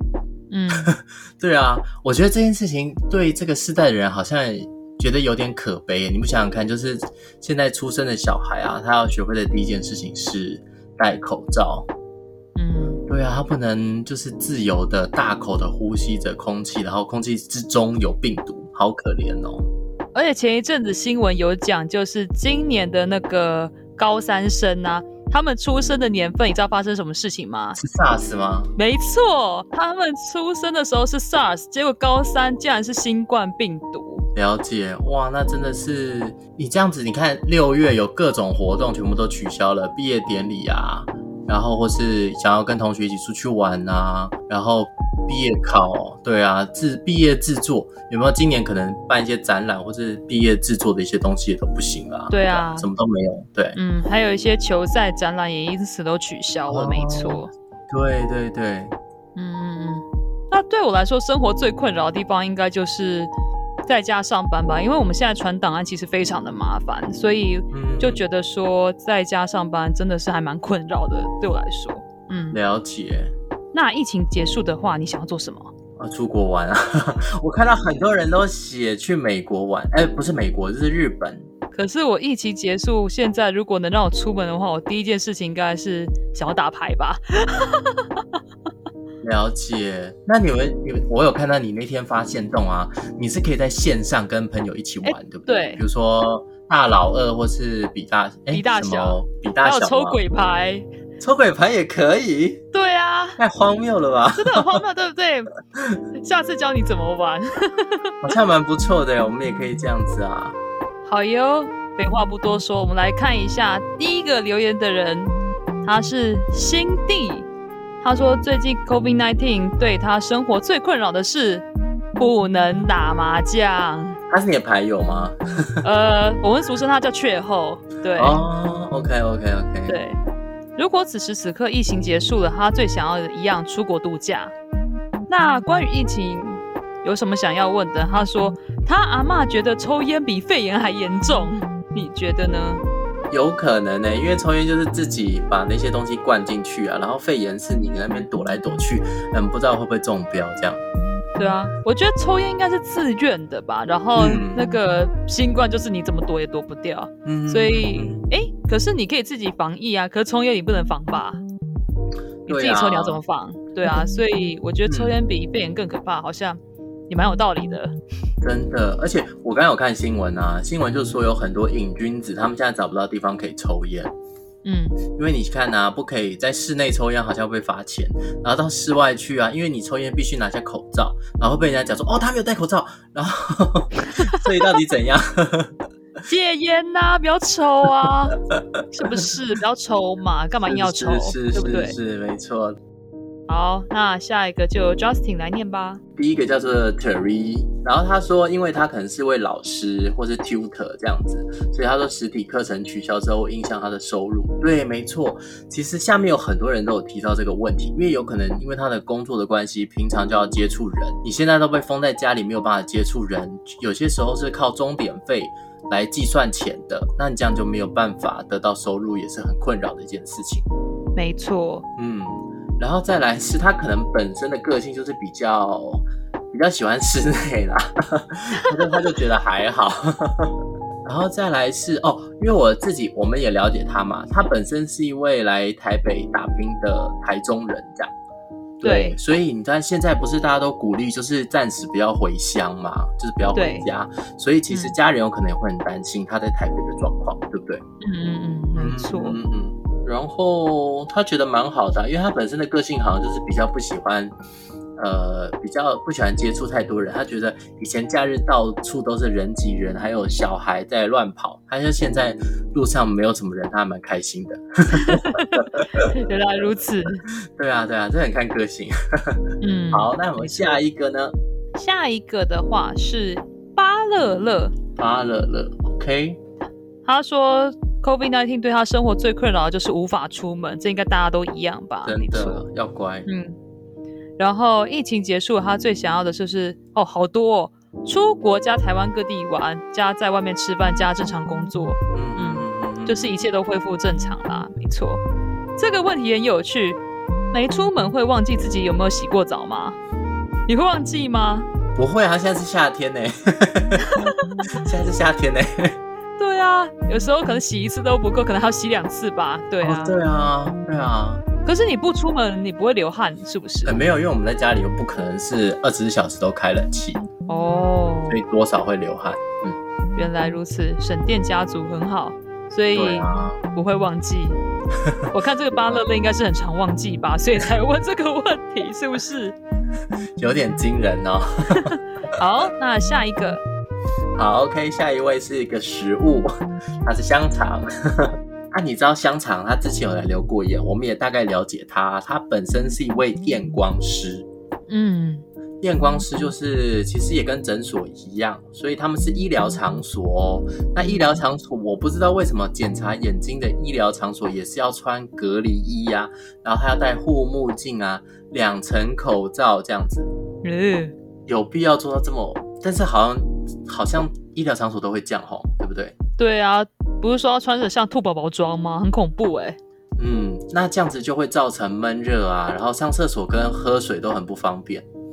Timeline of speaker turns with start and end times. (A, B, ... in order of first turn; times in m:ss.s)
0:00.5-0:00.9 A
0:00.8-0:11.9 B
0:12.6-0:13.0 A
0:13.1-0:19.7 B
0:20.1-0:27.8 A
0:27.8-0:28.7 B
0:28.8-0:34.2 A
0:34.3-0:53.8 B
0:52.3-0:52.9 A
0:53.7-0:57.5 A
0:56.7-0:58.9 B
0:59.4-1:03.3 A
1:03.8-1:12.6 A
1:07.7-1:08.2 B
1:12.5-1:13.3 B
1:13.7-1:15.7 A
1:16.0-1:21.5 B
1:21.7-1:28.2 A
1:29.2-1:40.2 B
1:35.0-1:35.8 A
1:38.5-1:40.8 A
1:41.2-1:42.6 B
1:42.7-1:43.4 A
1:43.4-1:44.8 B
1:44.4-1:45.5 A
1:46.1-1:48.1 A
1:48.2-1:50.6 B
1:51.0-1:55.3 A
1:55.8-1:57.5 A
1:58.0-2:01.6 A
2:02.2-2:04.2 A
2:04.3-2:05.8 B
2:05.8-2:08.4 A
2:08.2-2:10.0 B
2:09.9-2:10.2 A
2:10.8-2:14.5 A
2:15.3-2:22.8 A
2:23.3-2:30.8 B
2:31.4-2:41.4 A
2:34.2-2:34.6 B
2:37.2-2:38.2 B
2:42.4-2:43.2 B
2:42.5-2:47.9 A
2:44.8-2:45.1 B
2:48.4-2:54.1 B
2:54.6-2:55.0 A
2:55.1-3:05.8 B
3:06.3-3:08.4 A
3:08.8-3:09.3 B
3:08.9-3:11.9 A
3:10.7-3:12.8 B
3:13.5-3:16.0 A
3:16.2-3:40.7 B
3:41.1-3:41.8 A
3:42.0-3:50.5 B
3:51.0-3:58.1 B
3:58.8-4:07.8 B
3:58.8-3:59.2 A
4:03.5-4:03.8 A
4:08.0-4:09.4 A
4:08.7-4:14.4 B
4:15.0-4:26.1 B
4:25.0-4:27.2 A
4:27.6-4:31.3 B
4:29.6-4:30.8 A
4:31.7-4:34.7 A
4:35.0-4:36.4 B
4:37.0-4:42.6 A
4:42.0-4:43.3 B
4:43.2-4:43.6 A
4:44.4-4:55.2 A
4:52.1-4:53.4 B
4:55.8-4:57.0 A
4:57.5-5:00.0 A
5:00.7-5:01.7 A
5:02.0-5:06.0 B
5:04.1-5:04.4 A
5:06.4-5:10.2 A
5:09.8-5:11.4 B
5:11.6-5:14.0 A
5:13.8-5:17.2 B
5:17.5-5:18.4 A
5:18.3-5:19.4 B
5:19.6-5:24.6 A
5:22.9-5:23.6 B
5:25.0-5:26.0 B
5:25.3-5:29.6 A
5:30.4-5:32.0 B
5:32.4-5:33.6 A
5:34.4-5:36.5 B
5:37.0-5:44.5 B
5:44.9-5:45.4 A
5:45.8-6:00.3 B
6:00.6-6:01.1 A
6:01.5-6:06.1 B
6:06.4-6:09.8 A
6:10.2-6:15.0 B